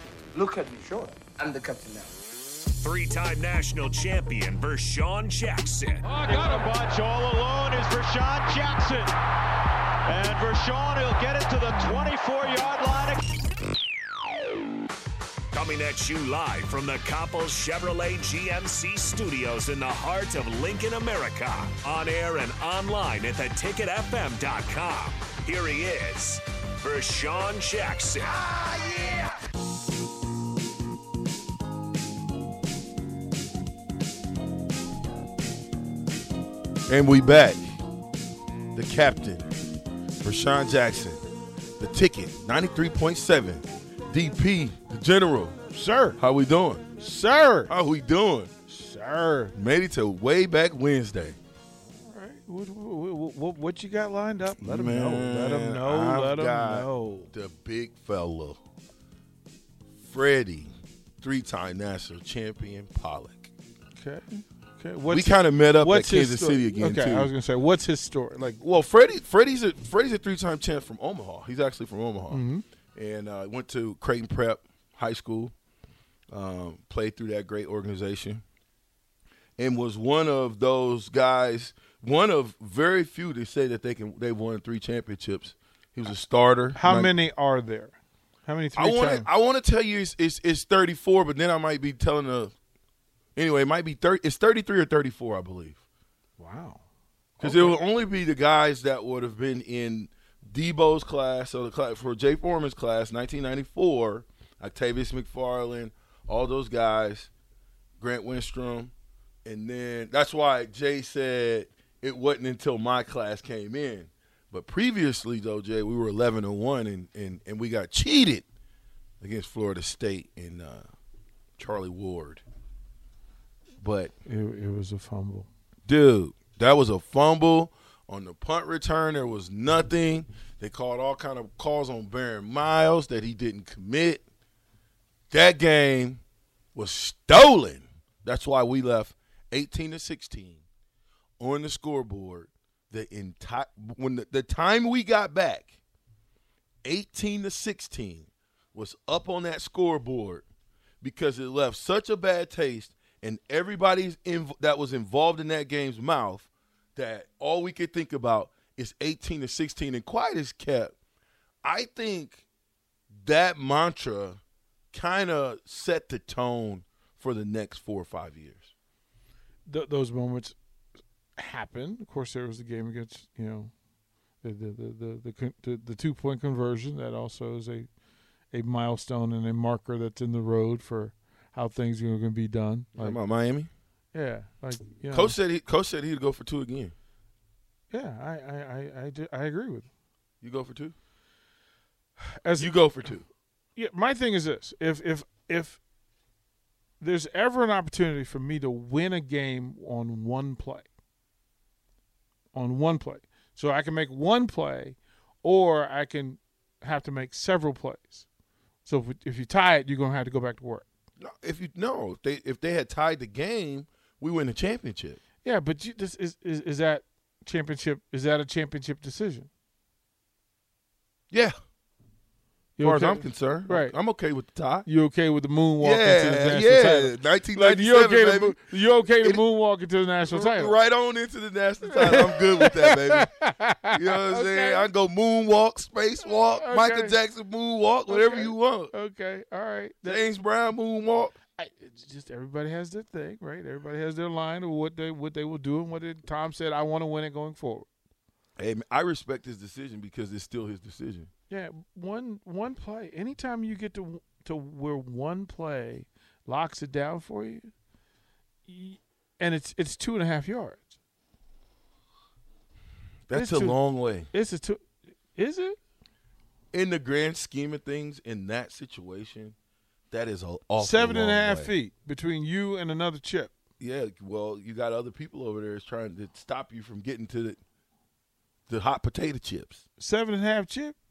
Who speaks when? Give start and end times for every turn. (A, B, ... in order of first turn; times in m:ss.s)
0:00.3-0:02.2 A
0:02.8-0:06.0 B
0:06.0-0:09.2 C
0:10.0-0:13.2 C
0:15.5-0:28.3 B
0:28.6-0:29.3 A
0:36.9-0:37.8 D
0:38.7-0:39.5 D
0:40.2-0:41.2 D
0:41.8-0:45.6 D
0:45.7-0:46.2 E
0:46.2-0:46.8 D
0:47.0-0:47.7 E
0:47.7-0:48.5 D
0:48.7-0:49.5 E
0:49.5-0:51.4 D
0:51.8-0:57.3 E
0:54.6-0:58.6 D
1:00.0-1:03.5 D
1:04.0-1:08.6 E
1:05.1-1:07.3 D
1:08.6-1:12.4 D
1:12.3-1:12.6 E
1:12.9-1:15.5 D
1:16.3-1:18.4 D
1:19.6-1:27.1 D
1:26.7-1:29.3 E
1:28.7-1:32.5 D
1:33.4-1:35.8 D
1:36.4-1:36.8 E
1:37.4-1:47.3 D
1:37.4-1:37.8 E
1:48.0-1:48.9 D
1:49.4-1:58.4 D
1:59.2-2:00.9 D
2:01.6-2:02.4 D
2:03.8-2:04.1 D
2:04.2-2:05.5 E
2:05.9-2:14.2 D
2:15.3-2:16.2 D
2:16.7-2:20.6 D
2:21.4-2:25.7 D
2:26.8-2:30.4 D
2:31.0-2:40.9 D
2:41.6-2:42.4 D
2:43.2-2:44.4 D
2:44.9-2:48.7 D
2:49.7-2:50.6 E
2:51.4-2:53.7 E
2:54.4-2:57.9 E
2:58.5-3:03.2 E
3:02.9-3:03.7 D
3:04.1-3:05.4 E
3:05.1-3:06.9 D
3:07.9-3:09.9 E
3:10.4-3:10.9 D
3:12.4-3:12.7 E
3:12.6-3:13.2 D
3:13.8-3:15.8 E
3:17.0-3:20.9 E
3:22.5-3:28.2 E
3:28.8-3:30.8 E
3:31.2-3:35.2 D
3:35.4-3:39.5 E
3:42.8-3:43.9 E
3:42.8-3:44.9 D
3:44.8-3:50.7 E
3:45.8-3:48.6 D
3:50.3-3:53.3 D
3:51.8-3:54.9 E
3:53.9-3:58.9 D
3:56.2-3:57.2 E
3:58.1-4:00.2 E
4:00.0-4:01.3 D
4:01.6-4:07.9 E
4:08.6-4:11.3 D
4:11.5-4:17.7 E
4:18.6-4:20.9 E
4:23.3-4:24.3 D
4:23.3-4:25.8 E
4:26.7-4:29.5 D
4:30.1-4:31.7 D
4:30.8-4:33.5 E
4:33.8-4:37.6 D
4:38.7-4:39.8 D
4:40.0-4:41.0 E